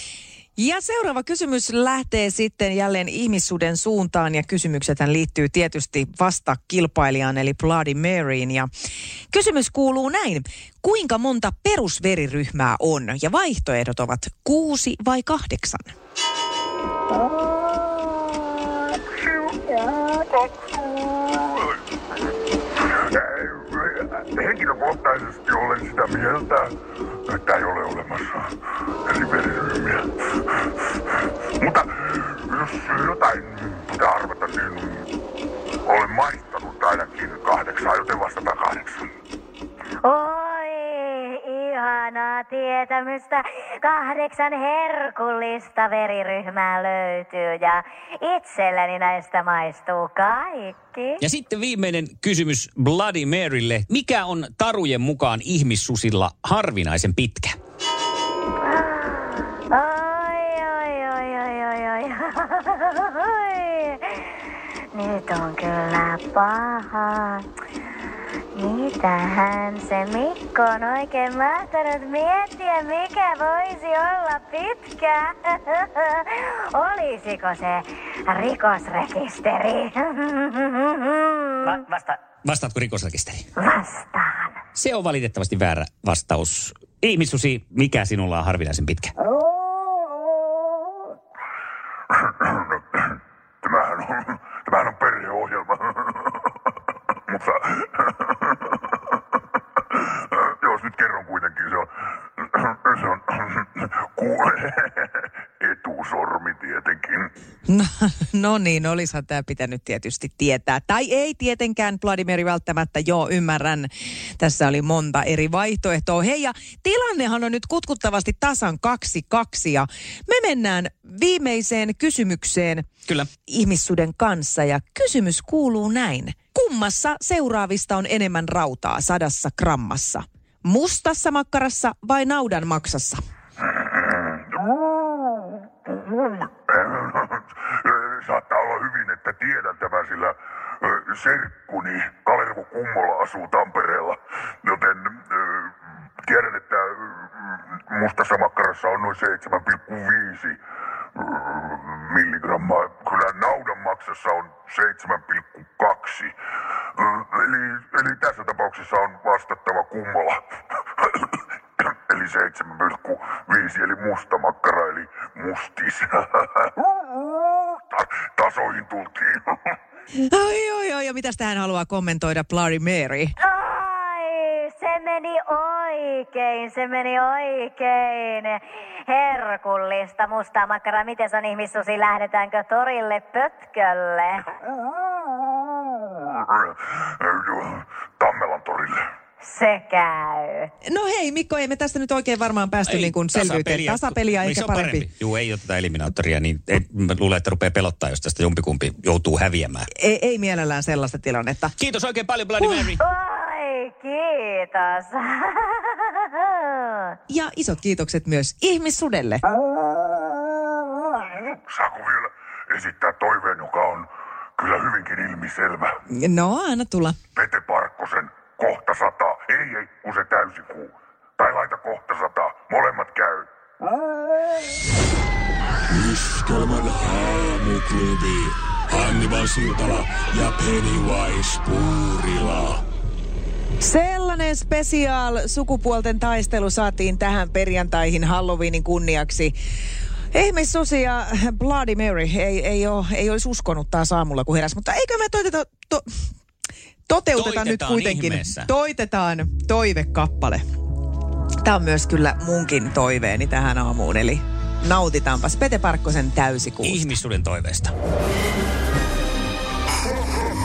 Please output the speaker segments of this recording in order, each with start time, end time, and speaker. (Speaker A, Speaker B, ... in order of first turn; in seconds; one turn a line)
Speaker A: 0.6-8.7
Speaker A: 9.3-15.9
Speaker B: 19.2-21.8
Speaker B: 22.8-35.1
Speaker B: 35.9-39.1
Speaker C: 40.0-51.2
Speaker D: 51.2-57.6
Speaker C: 58.6-64.3
Speaker C: 64.9-67.5
Speaker C: 68.5-81.8
Speaker D: 81.6-83.5
Speaker C: 83.6-84.6
Speaker D: 84.7-89.1
Speaker B: 92.1-96.5
Speaker B: 97.3-99.0
Speaker B: 99.9-107.3
Speaker A: 107.7-133.2
Speaker B: 133.6-150.6
Speaker B: 151.1-156.3
Speaker B: 156.9-166.7
Speaker B: 167.9-169.8
Speaker A: 170.3-173.3
Speaker C: 173.4-184.5
Speaker B: 186.4-189.1
Speaker C: 189.4-190.7
Speaker A: 190.8-195.1
Speaker D: 192.9-199.9
Speaker A: 200.0-201.7
Speaker D: 201.8-203.0
Speaker C: 203.0-207.2
Speaker A: 207.3-209.4
Speaker B: 211.4-215.9
Speaker A: 216.1-217.2
Speaker B: 217.3-223.5
Speaker E: 225.9-232.8
Speaker A: 233.8-239.6
Speaker A: 240.3-246.1
Speaker A: 247.1-250.6
Speaker D: 247.4-248.7
Speaker A: 251.6-257.1
Speaker D: 256.8-257.9